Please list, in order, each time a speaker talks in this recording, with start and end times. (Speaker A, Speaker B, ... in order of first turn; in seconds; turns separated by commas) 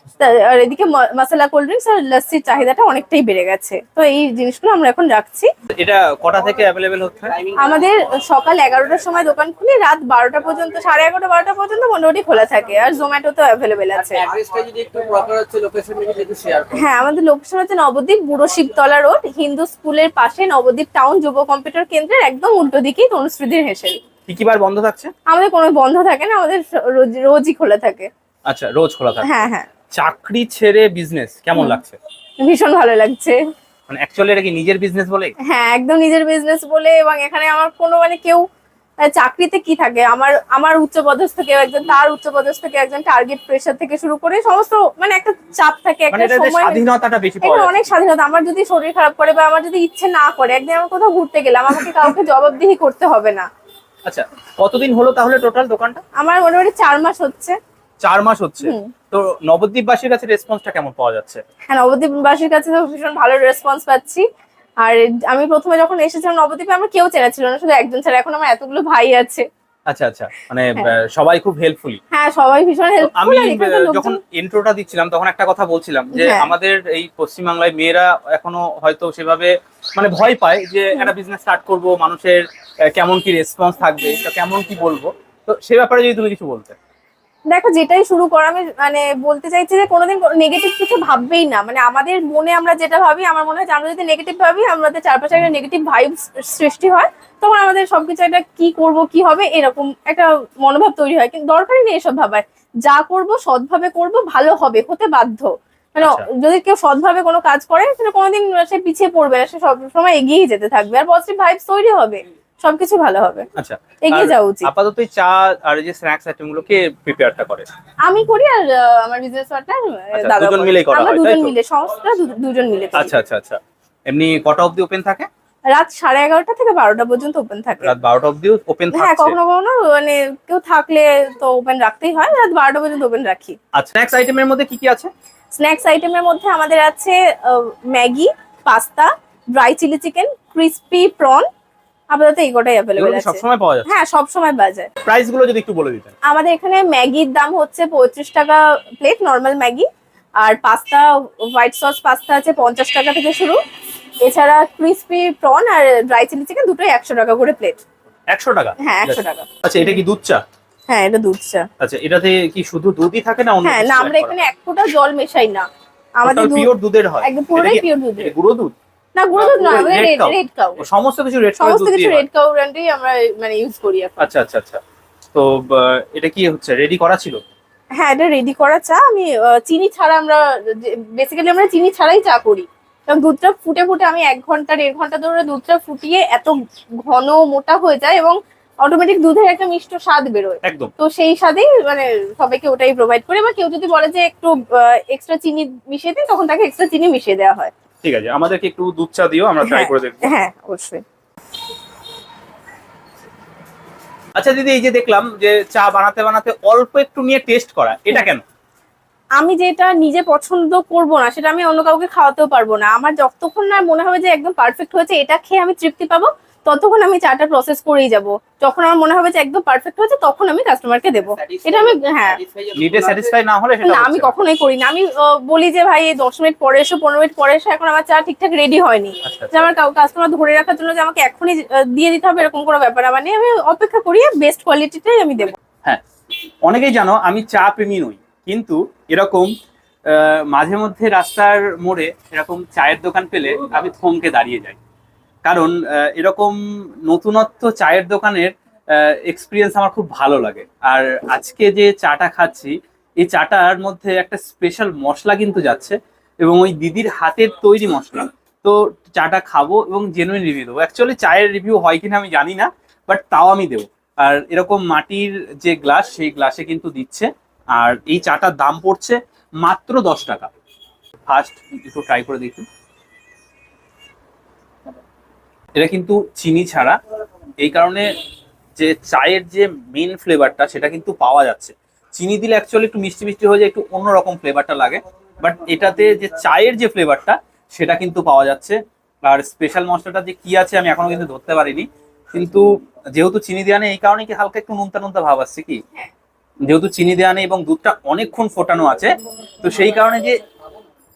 Speaker A: 0.2-5.5, Speaker B: 5.8-7.3, Speaker C: 7.4-7.7, Speaker A: 7.6-14.3, Speaker C: 14.0-16.8, Speaker A: 16.7-24.0, Speaker B: 24.3-25.1, Speaker A: 25.3-28.1, Speaker B: 28.4-29.3, Speaker A: 29.2-29.7, Speaker B: 29.9-32.0, Speaker A: 32.4-33.4, Speaker B: 33.9-35.3, Speaker A: 35.5-38.4, Speaker A: 39.0-46.8, Speaker B: 46.1-47.9, Speaker A: 47.4-53.5, Speaker B: 54.0-56.0, Speaker A: 56.2-57.5, Speaker B: 58.0-61.4, Speaker A: 58.6-58.9, Speaker A: 61.7-64.2, Speaker A: 64.8-69.5, Speaker B: 69.9-72.0, Speaker A: 72.1-74.2, Speaker B: 73.0-86.7, Speaker A: 76.1-76.5, Speaker A: 87.5-113.5, Speaker B: 106.0-106.3, Speaker B: 113.5-117.7, Speaker A: 114.0-114.7, Speaker A: 118.0-123.1, Speaker B: 120.1-121.5, Speaker B: 122.9-125.3, Speaker A: 125.7-127.9, Speaker B: 127.8-129.4, Speaker A: 128.9-133.6, Speaker B: 133.7-135.1, Speaker A: 135.6-141.4, Speaker A: 142.1-144.9, Speaker B: 142.9-143.9, Speaker B: 145.0-146.1, Speaker A: 146.2-149.9, Speaker A: 150.4-153.6, Speaker A: 154.2-157.8, Speaker B: 158.3-160.4, Speaker A: 158.8-159.5, Speaker A: 160.9-161.7, Speaker B: 161.8-164.4, Speaker A: 163.6-165.6, Speaker A: 166.2-166.7, Speaker B: 166.2-168.7, Speaker A: 167.2-168.3, Speaker A: 169.2-170.8, Speaker B: 169.3-172.2, Speaker A: 171.6-174.2, Speaker B: 174.2-174.8, Speaker B: 175.3-177.4, Speaker A: 178.0-186.5, Speaker A: 187.0-197.7, Speaker B: 190.6-190.9, Speaker B: 198.0-200.3, Speaker A: 199.6-201.0, Speaker B: 204.3-208.4, Speaker A: 209.4-222.4, Speaker C: 221.4-223.3, Speaker B: 222.8-224.3, Speaker A: 223.8-235.6, Speaker B: 229.2-229.7, Speaker B: 236.6-239.5, Speaker B: 240.1-244.8, Speaker B: 245.4-270.5, Speaker B: 271.2-272.7, Speaker B: 275.8-277.0, Speaker B: 277.6-278.1, Speaker B: 278.8-295.8, Speaker B: 296.6-300.4